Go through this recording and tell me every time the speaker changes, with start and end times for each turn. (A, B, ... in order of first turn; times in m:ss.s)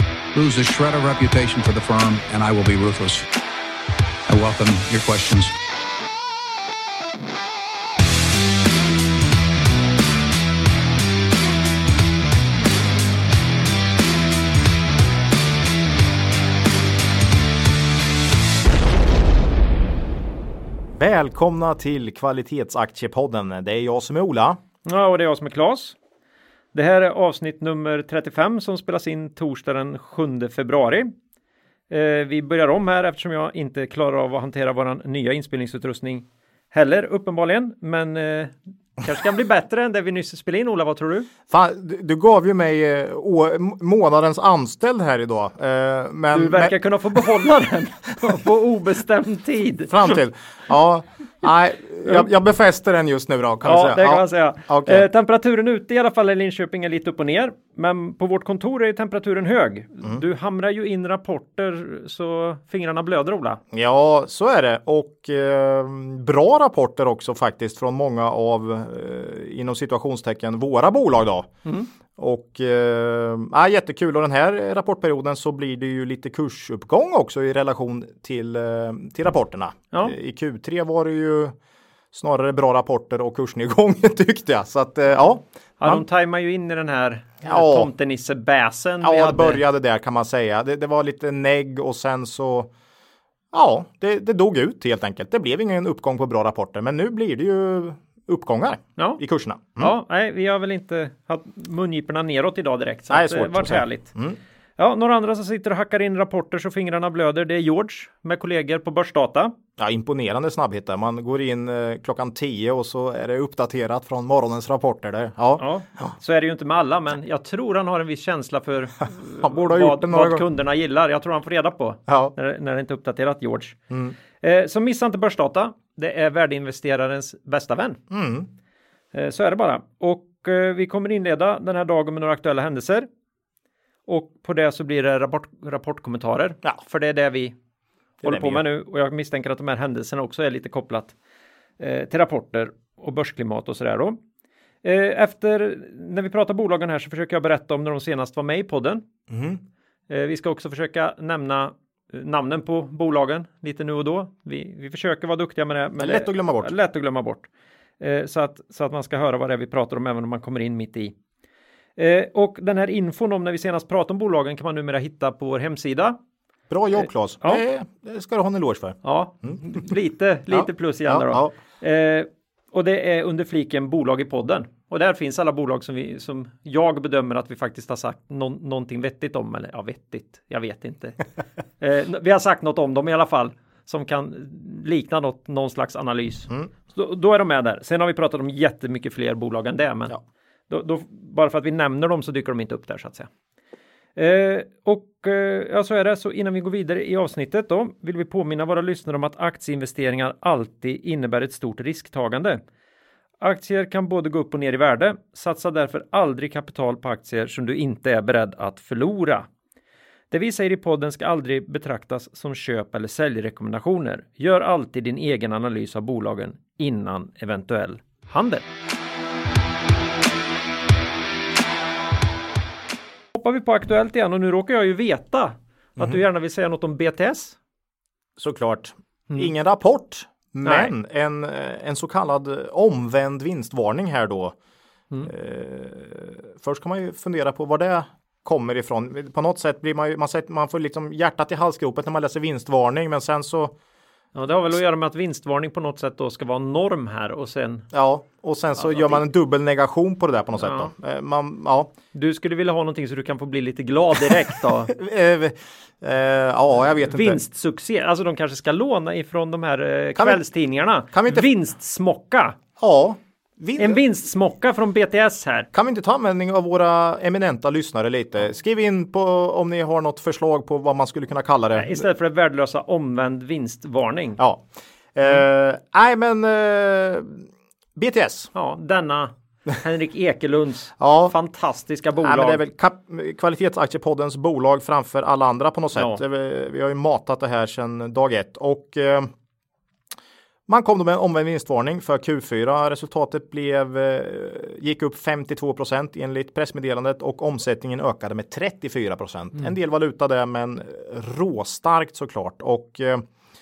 0:00.3-0:03.3 A
0:04.3-0:05.5 A
0:21.0-0:24.6 B
0:24.8-0:26.0 C
0:26.7-0:31.1 C
0:31.9-0:41.3 C
0:41.5-0:47.2 B
0:46.3-0:50.2 C
0:49.9-0:55.1 B
0:53.6-1:03.6 C
1:03.7-1:11.5 B
1:12.2-1:21.6 B
1:22.1-1:26.0 B
1:25.8-1:29.6 C
1:27.4-1:27.9 B
1:29.0-1:32.7 B
1:33.5-1:39.9 B
1:39.8-1:44.1 C
1:43.1-1:44.4 B
1:44.8-1:49.5 C
1:49.8-1:56.1 B
1:55.6-2:03.8 C
1:59.4-2:00.4 B
2:02.1-2:02.3 B
2:03.9-2:04.2 B
2:04.4-2:08.0 C
2:08.1-2:08.5 B
2:09.1-2:13.1 C
2:14.1-2:17.6 C
2:18.2-2:18.6 B
2:18.2-2:21.1 C
2:21.8-2:24.2 C
2:24.8-2:29.1 C
2:29.3-2:29.6 B
2:30.1-2:37.5 C
2:36.0-2:36.7 B
2:38.0-2:41.1 C
2:42.0-2:46.2 C
2:46.7-2:49.6 B
2:49.0-3:01.2 C
2:50.5-2:51.5 B
3:01.8-3:10.2 C
3:10.7-3:13.3 C
3:14.2-3:22.6 C
3:23.4-3:29.5 C
3:30.3-3:38.7 C
3:43.3-3:47.6 C
3:48.4-3:54.6 B
3:50.6-3:50.9 C
3:55.2-4:03.8 B
4:04.4-4:07.9 C
4:07.9-4:11.9 B
4:08.8-4:09.2 C
4:10.6-4:10.9 C
4:12.1-4:14.9 C
4:14.9-4:17.4 B
4:17.1-4:22.6 C
4:20.2-4:20.4 B
4:21.1-4:21.5 B
4:22.8-4:24.0 B
4:23.8-4:25.7 C
4:25.7-4:32.0 B
4:31.8-4:34.4 C
4:34.4-4:38.5 B
4:38.5-4:42.6 C
4:41.0-4:41.3 B
4:42.2-4:49.3 B
4:46.0-4:46.2 C
4:50.7-5:03.3 B